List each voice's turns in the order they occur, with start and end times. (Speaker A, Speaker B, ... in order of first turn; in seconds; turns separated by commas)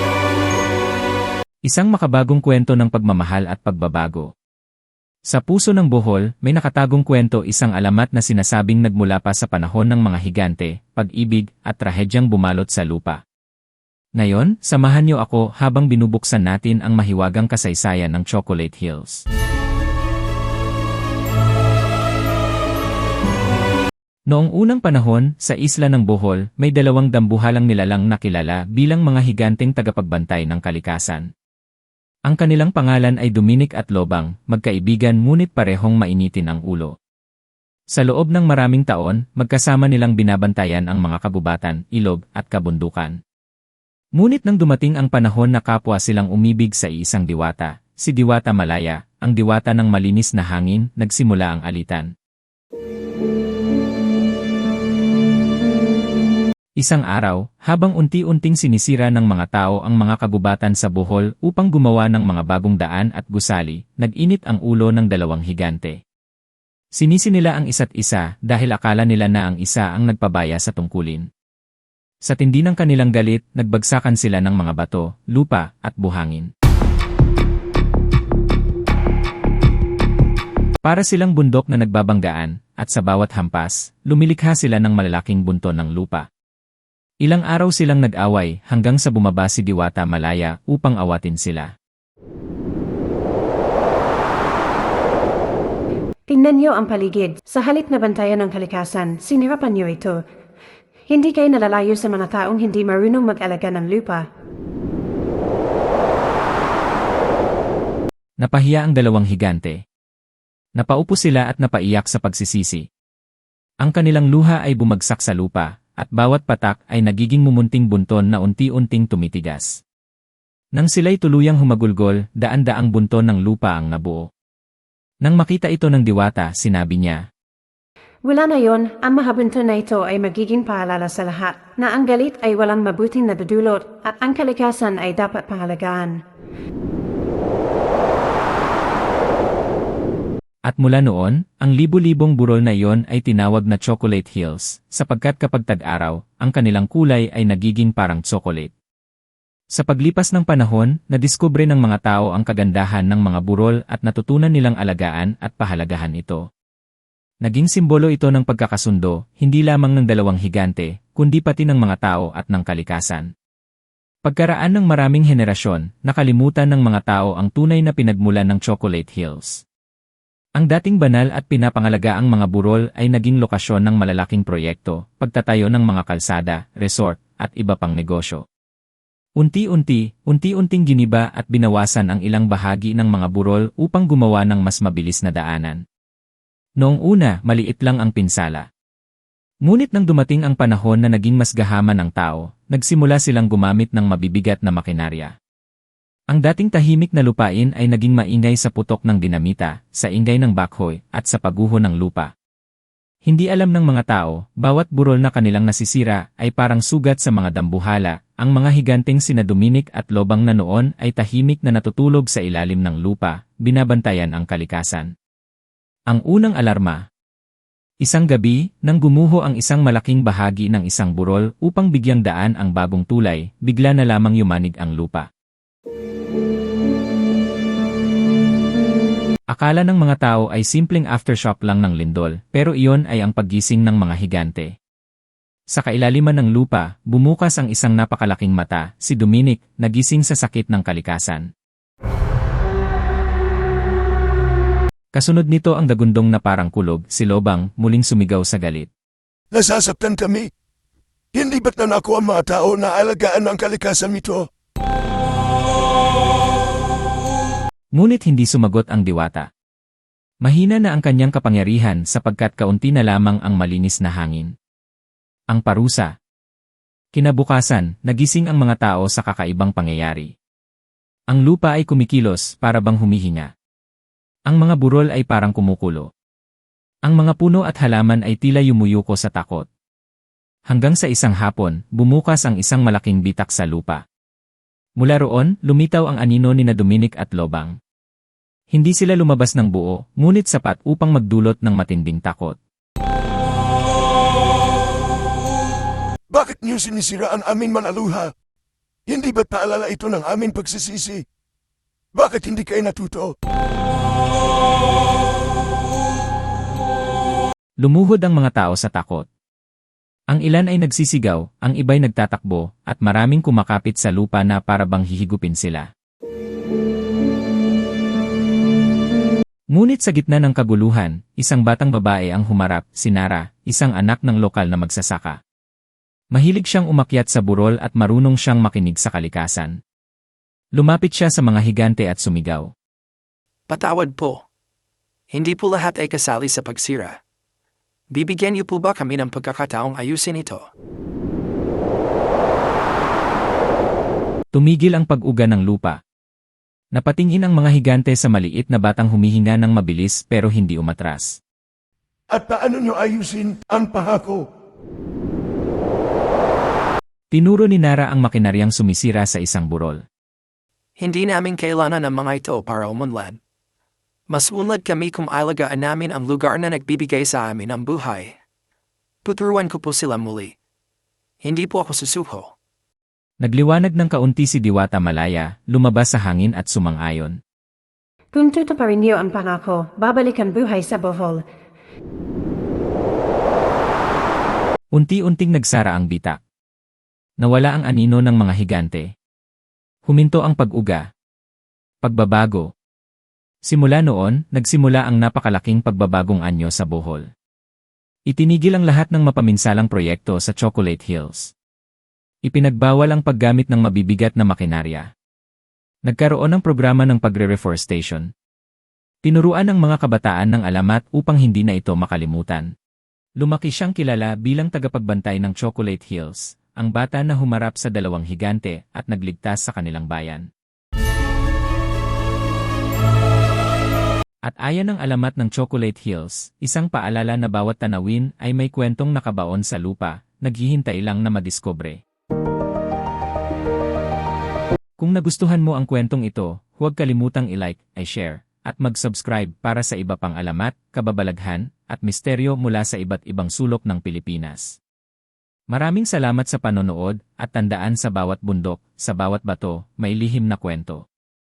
Speaker A: 1.6-4.3, Speaker A: 5.3-13.2, Speaker A: 14.2-19.2, Speaker A: 24.3-31.3, Speaker A: 32.3-36.9, Speaker A: 37.9-43.1, Speaker A: 44.1-52.1, Speaker A: 56.8-66.0, Speaker A: 67.0-71.2, Speaker A: 72.2-76.5, Speaker A: 80.8-86.2, Speaker A: 87.2-91.7, Speaker B: 96.3-100.2, Speaker B: 101.1-104.2, Speaker A: 108.4-109.8, Speaker A: 110.8-112.8, Speaker A: 113.8-119.8, Speaker A: 120.7-124.3, Speaker A: 125.2-127.2, Speaker B: 128.2-136.2, Speaker A: 140.7-148.7, Speaker A: 149.7-156.4, Speaker A: 157.4-163.3, Speaker A: 164.2-169.6, Speaker A: 170.6-178.4, Speaker A: 179.4-185.8, Speaker A: 186.8-188.7, Speaker A: 189.6-195.3, Speaker A: 196.3-202.3, Speaker A: 203.2-215.1, Speaker A: 216.1-217.0, Speaker A: 218.0-225.3, Speaker A: 229.5-234.7, Speaker A: 235.7-241.5, Speaker A: 245.1-248.9, Speaker C: 249.5-250.5, Speaker C: 251.3-254.5, Speaker A: 257.9-259.5, Speaker A: 260.4-264.5, Speaker A: 265.5-266.1, Speaker A: 267.1-270.3, Speaker A: 271.3-273.5, Speaker A: 274.5-276.1, Speaker A: 277.1-279.7, Speaker A: 280.7-284.0, Speaker A: 285.0-287.8, Speaker A: 288.7-292.6, Speaker C: 296.3-298.3, Speaker C: 299.1-301.2, Speaker C: 302.1-303.3, Speaker A: 307.8-309.3, Speaker A: 310.3-315.9, Speaker A: 319.7-325.4, Speaker A: 326.3-329.8, Speaker A: 330.8-332.7, Speaker D: 333.7-334.4, Speaker D: 335.3-337.2, Speaker D: 338.1-340.6, Speaker A: 344.5-346.0, Speaker A: 346.9-351.4, Speaker C: 352.3-354.4, Speaker A: 357.3-360.0, Speaker D: 361.0-363.4, Speaker D: 364.3-368.3, Speaker D: 369.2-370.6, Speaker D: 371.4-372.5, Speaker A: 373.4-377.4, Speaker B: 378.3-381.4, Speaker A: 384.9-386.4, Speaker A: 387.4-389.1, Speaker A: 390.1-391.0, Speaker A: 392.0-392.7, Speaker A: 393.6-397.3, Speaker A: 398.3-401.5, Speaker A: 402.4-405.1, Speaker A: 406.1-408.3, Speaker A: 409.2-412.7, Speaker A: 413.4-420.5, Speaker A: 424.4-432.0, Speaker A: 435.0-444.8, Speaker A: 445.7-451.0